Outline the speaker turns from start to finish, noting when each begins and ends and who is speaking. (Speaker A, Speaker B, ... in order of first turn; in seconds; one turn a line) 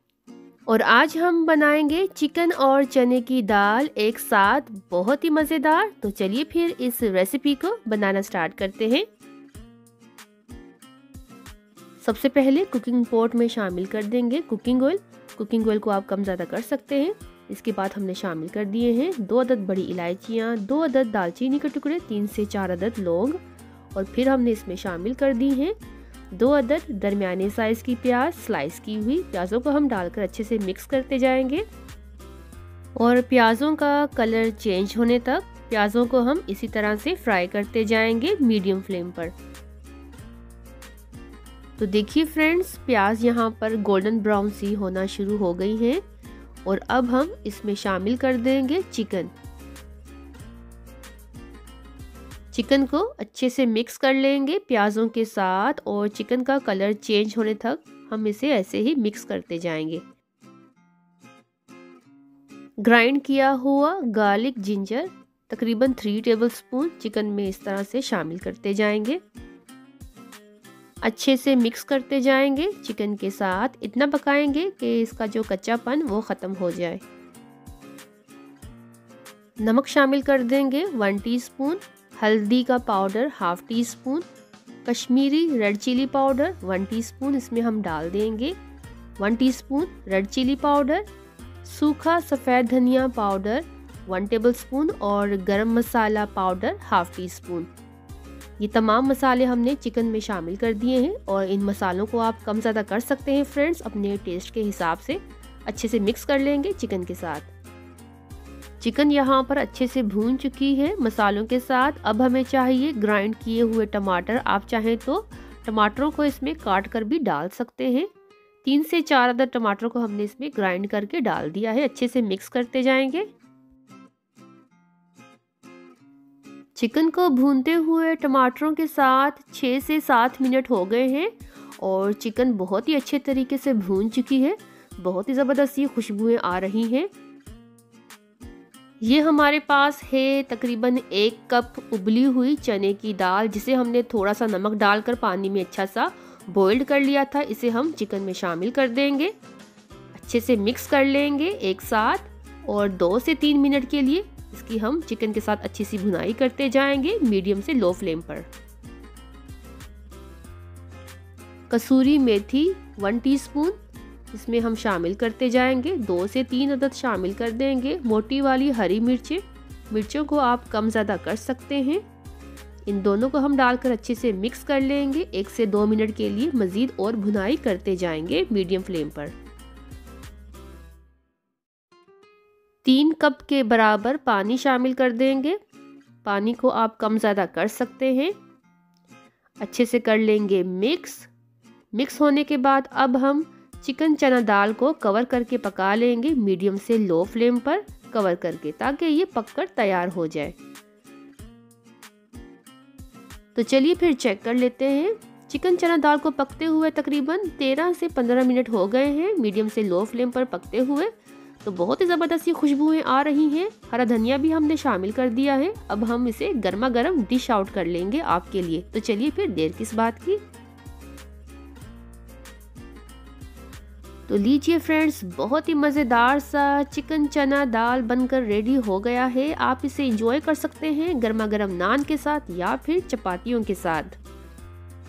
Speaker A: 0.7-9.1
Speaker A: 12.0-23.4
Speaker A: 23.9-25.8
Speaker A: 26.3-31.6
Speaker A: 33.0-39.3
Speaker A: 41.8-46.0
Speaker A: 46.7-49.3
Speaker A: 52.5-60.0
Speaker A: 62.8-69.2
Speaker A: 71.0-77.0
Speaker A: 79.6-84.3
Speaker A: 84.8-88.6
Speaker A: 89.2-91.1
Speaker A: 91.6-97.7
Speaker A: 98.6-107.5
Speaker A: 108.8-118.1
Speaker A: 118.7-123.3
Speaker A: 126.8-137.1
Speaker A: 139.0-149.3
Speaker A: 150.1-158.5
Speaker A: 161.7-163.8
Speaker A: 164.3-172.0
Speaker A: 172.9-179.3
Speaker A: 182.8-185.6
Speaker A: 186.2-188.3
Speaker A: 189.6-191.3
Speaker A: 191.9-200.6
Speaker A: 203.6-211.1
Speaker A: 211.6-220.4
Speaker A: 224.3-234.2